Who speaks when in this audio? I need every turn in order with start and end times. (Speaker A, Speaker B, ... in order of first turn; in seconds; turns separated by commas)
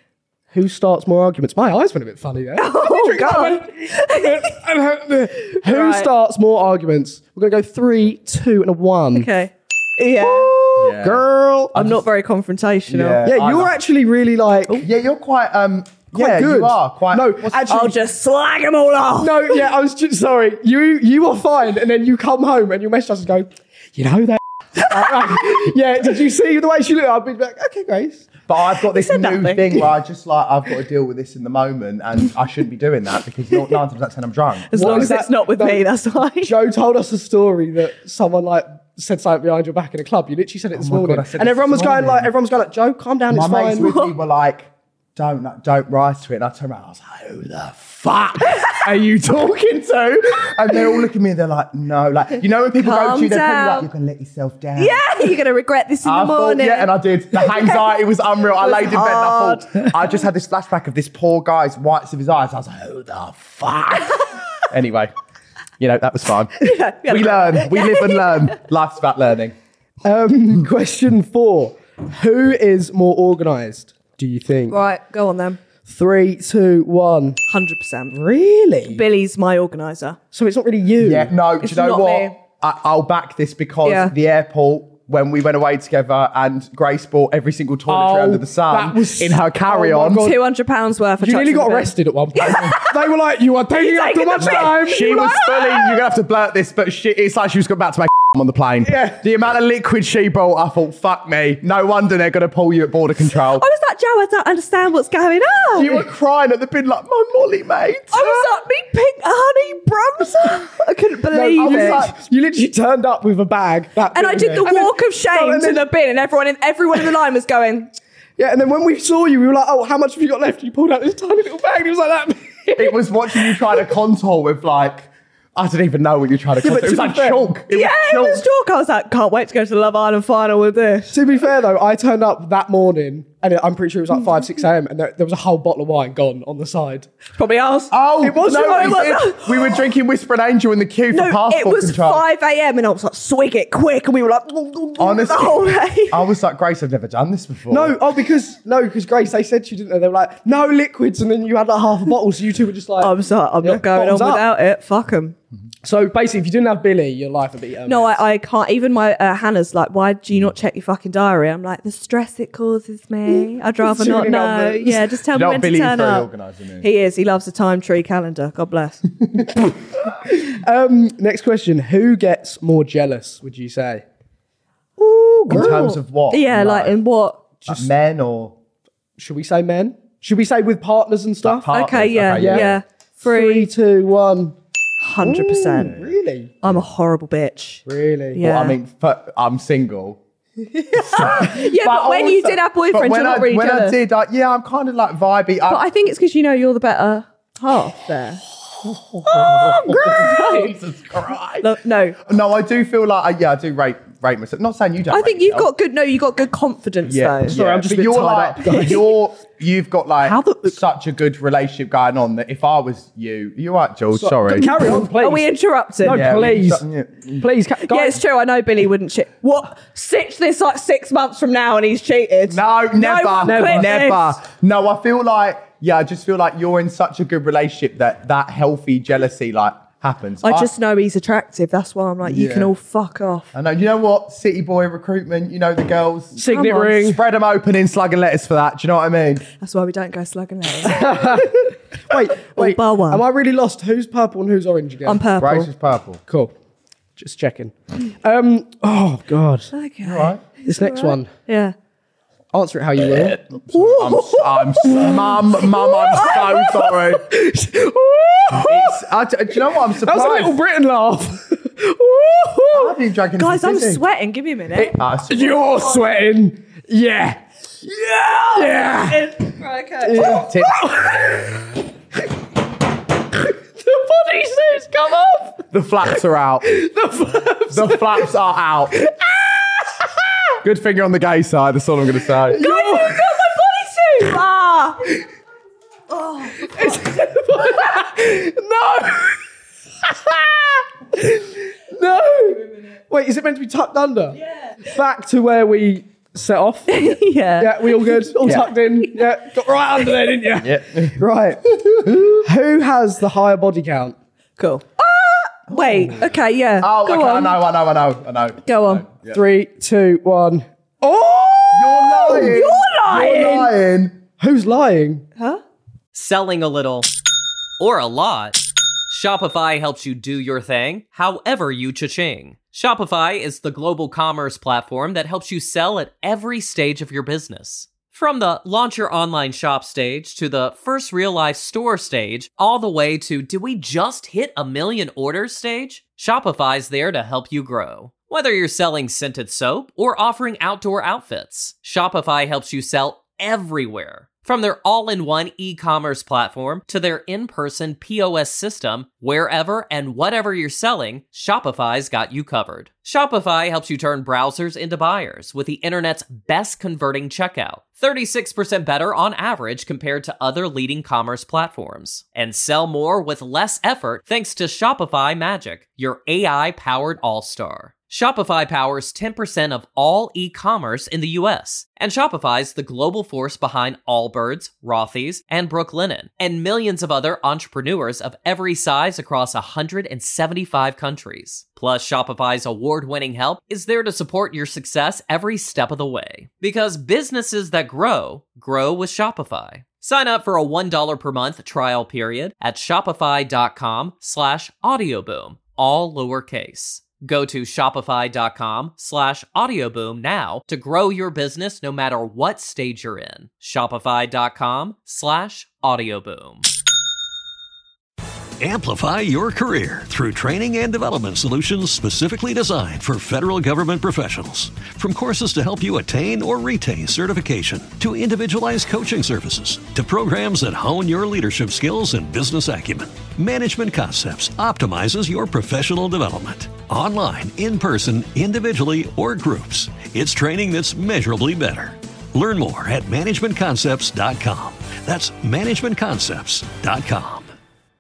Speaker A: 0.5-9.3, Speaker B: 2.6-4.5, Speaker B: 5.5-6.1, Speaker B: 9.1-11.0, Speaker A: 10.2-11.8, Speaker C: 10.8-12.1, Speaker B: 11.7-13.3, Speaker C: 12.9-13.7, Speaker A: 13.2-14.8, Speaker C: 14.8-17.8, Speaker A: 16.1-18.0, Speaker B: 17.7-19.7, Speaker A: 19.2-28.3, Speaker C: 28.5-35.2, Speaker B: 28.9-29.8, Speaker B: 34.7-36.5, Speaker A: 34.7-35.9, Speaker A: 36.4-43.9, Speaker C: 40.7-42.3, Speaker C: 43.3-55.4, Speaker B: 43.8-44.1, Speaker B: 52.8-53.9, Speaker B: 54.8-58.0, Speaker C: 56.0-65.1, Speaker B: 58.6-59.9, Speaker C: 65.8-69.5, Speaker B: 66.6-68.5, Speaker A: 70.0-74.8, Speaker B: 74.7-75.6, Speaker A: 75.8-77.4, Speaker B: 77.5-78.2, Speaker A: 78.1-79.0, Speaker B: 78.9-80.2, Speaker A: 80.3-81.3, Speaker C: 81.0-90.3, Speaker B: 81.6-82.4, Speaker B: 83.8-84.1, Speaker A: 87.9-90.4, Speaker B: 90.2-93.1, Speaker A: 91.2-95.2, Speaker C: 92.4-92.8, Speaker B: 93.8-96.0, Speaker C: 94.4-103.7, Speaker A: 98.9-99.2, Speaker B: 103.6-106.0, Speaker C: 105.7-108.5, Speaker B: 108.1-112.0, Speaker A: 111.3-115.8, Speaker C: 111.5-112.2, Speaker B: 114.1-117.9, Speaker A: 118.4-123.8, Speaker C: 122.8-128.5, Speaker A: 126.6-127.5, Speaker B: 127.7-131.2, Speaker A: 131.1-137.1, Speaker B: 137.3-139.8, Speaker C: 137.9-142.2, Speaker A: 138.2-139.2, Speaker B: 141.1-146.2, Speaker C: 145.0-148.0, Speaker A: 147.7-154.4, Speaker B: 153.0-155.4, Speaker A: 155.8-158.2, Speaker B: 157.9-166.3, Speaker A: 163.3-165.0, Speaker C: 165.3-166.9, Speaker B: 166.8-169.1, Speaker A: 170.1-174.0, Speaker B: 175.0-177.4, Speaker A: 175.3-175.8, Speaker C: 175.5-177.0, Speaker C: 177.7-178.6, Speaker A: 179.2-181.7, Speaker C: 181.4-182.8, Speaker B: 181.7-183.7, Speaker A: 182.4-184.6, Speaker B: 185.0-186.0, Speaker A: 185.2-186.5, Speaker B: 186.6-188.8, Speaker A: 187.9-188.4, Speaker C: 188.4-190.2, Speaker B: 190.8-194.0, Speaker C: 191.0-195.8, Speaker B: 195.7-198.4, Speaker C: 198.9-205.7, Speaker B: 199.4-200.7, Speaker A: 199.8-200.7, Speaker B: 201.6-202.2, Speaker B: 205.1-207.6, Speaker C: 207.1-214.7, Speaker A: 207.5-209.0, Speaker B: 208.7-209.1, Speaker B: 210.3-210.8, Speaker A: 214.1-215.5, Speaker B: 214.5-216.5, Speaker A: 216.0-216.8, Speaker C: 216.1-217.5, Speaker A: 217.4-218.2, Speaker B: 217.8-224.4, Speaker C: 222.5-230.7, Speaker A: 223.4-223.9, Speaker B: 230.4-233.5, Speaker C: 232.2-232.7, Speaker C: 233.5-239.4, Speaker A: 236.4-237.2, Speaker B: 236.5-236.9, Speaker B: 239.6-241.5, Speaker A: 240.8-245.2, Speaker B: 242.4-243.2, Speaker B: 245.1-245.7, Speaker C: 245.4-246.2, Speaker A: 246.3-246.5, Speaker A: 247.2-249.7, Speaker B: 249.7-251.8, Speaker C: 250.0-250.4, Speaker A: 250.7-251.3, Speaker A: 252.5-253.4, Speaker C: 253.3-257.2, Speaker B: 253.7-255.0, Speaker A: 254.9-255.2, Speaker A: 255.9-259.0, Speaker B: 256.0-256.6, Speaker C: 258.5-260.6, Speaker A: 259.9-263.0, Speaker C: 262.7-264.0, Speaker B: 263.4-264.9, Speaker A: 264.8-269.5, Speaker C: 264.9-265.9, Speaker B: 268.6-270.5, Speaker A: 270.0-271.7, Speaker C: 270.1-270.9, Speaker A: 273.4-275.6, Speaker C: 275.7-276.7, Speaker A: 276.6-278.3, Speaker C: 277.7-279.0, Speaker A: 279.0-280.6, Speaker C: 280.6-282.6, Speaker A: 282.5-283.7, Speaker B: 282.6-285.1, Speaker B: 286.1-287.0, Speaker A: 286.6-289.4, Speaker A: 290.0-304.2, Speaker B: 296.9-299.1, Speaker C: 298.4-298.7, Speaker C: 300.6-301.2, Speaker C: 301.8-302.4, Speaker B: 304.6-307.6, Speaker C: 306.8-309.4, Speaker B: 308.7-309.1, Speaker A: 309.3-312.6, Speaker C: 311.7-314.2, Speaker B: 312.2-313.7, Speaker A: 314.4-315.2, Speaker B: 315.4-315.6, Speaker D: 316.1-317.1, Speaker D: 317.8-406.6, Speaker E: 408.6-437.5